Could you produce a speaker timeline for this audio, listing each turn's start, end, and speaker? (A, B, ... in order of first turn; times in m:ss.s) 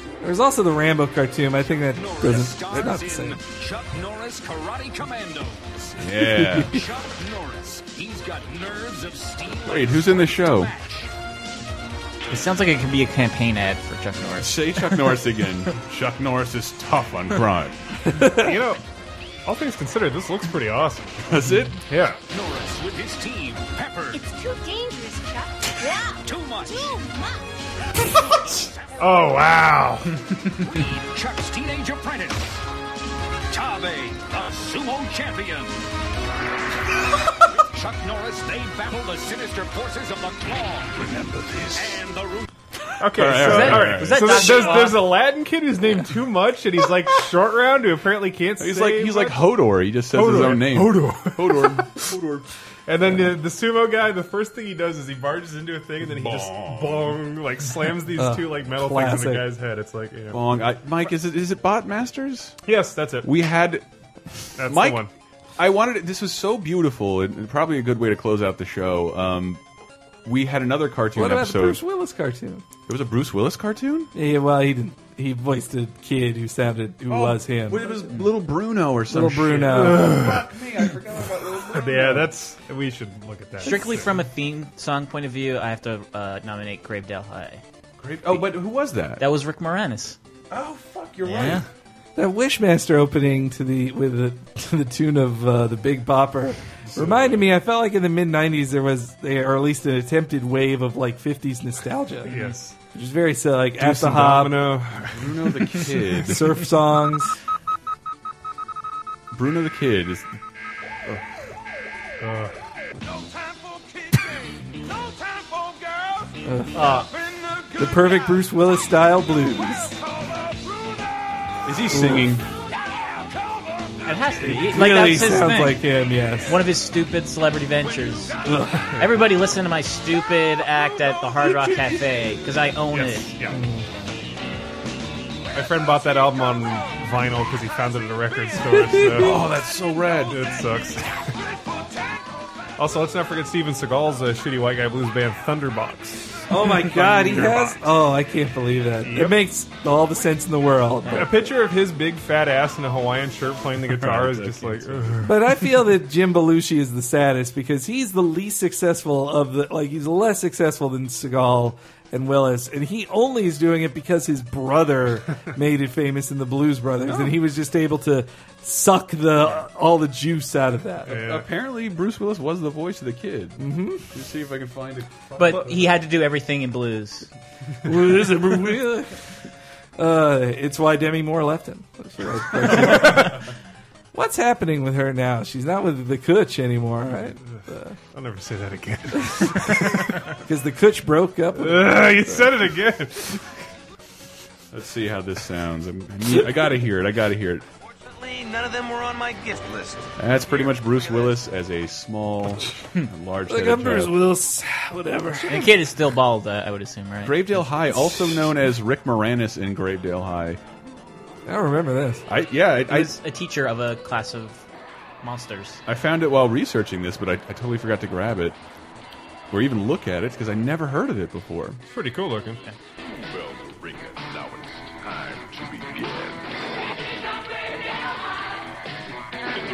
0:00.2-0:03.4 A
0:01.9-0:06.0 B
0:06.0-0:06.8 C
0:06.3-0:06.7 A
0:06.6-0:11.1 B
0:09.6-0:10.7 C
0:12.3-0:15.2 D
0:14.4-0:17.8 C
0:18.1-0:18.5 A
0:18.3-0:18.8 E
0:19.5-0:21.2 E
0:21.3-0:21.8 C
0:21.9-0:22.2 E
0:22.3-0:24.2 B
0:24.1-0:27.5 F
0:26.2-0:27.0 B
0:29.0-0:30.1 E
0:30.6-0:32.6 B
0:33.5-0:35.7 B
0:37.6-0:41.0 B
0:41.8-0:42.5 B
0:43.0-0:49.4 E
0:43.1-0:44.6 C
0:43.4-0:45.1 D
0:48.6-0:52.5 C
0:50.1-0:51.8 E
0:52.9-1:00.4 E
0:56.2-0:57.2 C
0:58.2-0:59.5 A
1:00.3-1:02.6 C
1:02.7-1:03.3 E
1:03.2-1:03.8 C
1:04.6-1:05.1 E
1:04.6-1:05.0 C
1:05.6-1:09.6 C
1:10.2-1:11.8 C
1:11.2-1:12.6 A
1:12.9-1:14.1 C
1:14.1-1:17.9 A
1:17.1-1:22.3 C
1:19.1-1:20.2 A
1:19.8-1:20.4 E
1:21.7-1:24.1 E
1:23.6-1:27.6 D
1:28.0-1:29.2 C
1:29.2-1:30.2 D
1:30.5-1:31.6 C
1:31.2-1:31.6 D
1:32.2-1:42.4 A
1:36.8-1:37.4 C
1:42.3-1:42.7 E
1:42.3-1:42.6 D
1:42.9-1:44.6 A
1:43.8-1:45.2 E
1:45.1-1:46.6 C
1:46.3-1:47.4 A
1:49.3-1:50.3 C
1:52.2-1:52.5 E
1:56.4-1:57.0 A
1:56.7-1:57.1 D
1:57.8-2:00.0 A
2:01.6-2:02.5 C
2:01.9-2:02.3 A
2:04.0-2:05.9 D
2:04.4-2:06.6 A
2:06.5-2:08.4 D
2:08.4-2:08.9 A
2:09.0-2:13.3 D
2:12.9-2:13.6 E
2:13.5-2:13.8 A
2:15.5-2:19.4 E
2:19.1-2:20.4 C
2:20.3-2:21.4 E
2:22.8-2:27.8 E
2:26.5-2:31.3 A
2:29.0-2:29.4 E
2:31.1-2:35.6 E
2:33.9-2:35.3 C
2:35.2-2:51.2 A
2:51.1-2:51.4 E
2:51.1-2:55.7 C
2:53.6-2:54.1 A
2:55.4-2:57.3 D
2:57.8-2:59.2 A
3:00.0-3:03.4 A
3:04.1-3:08.0 A
3:08.1-3:10.3 E
3:10.4-3:12.5 A
3:11.6-3:13.4 E
3:14.7-3:17.6 C
3:18.1-3:20.1 G
3:20.2-3:24.2 C
3:23.5-3:25.7 A
3:25.5-3:27.8 D
3:27.2-3:30.6 C
3:31.5-3:32.2 A
3:32.3-3:33.1 C
3:32.9-3:34.6 D
3:35.2-3:35.8 D
3:35.9-3:38.6 C
3:39.5-3:41.8 C
3:41.9-3:42.6 E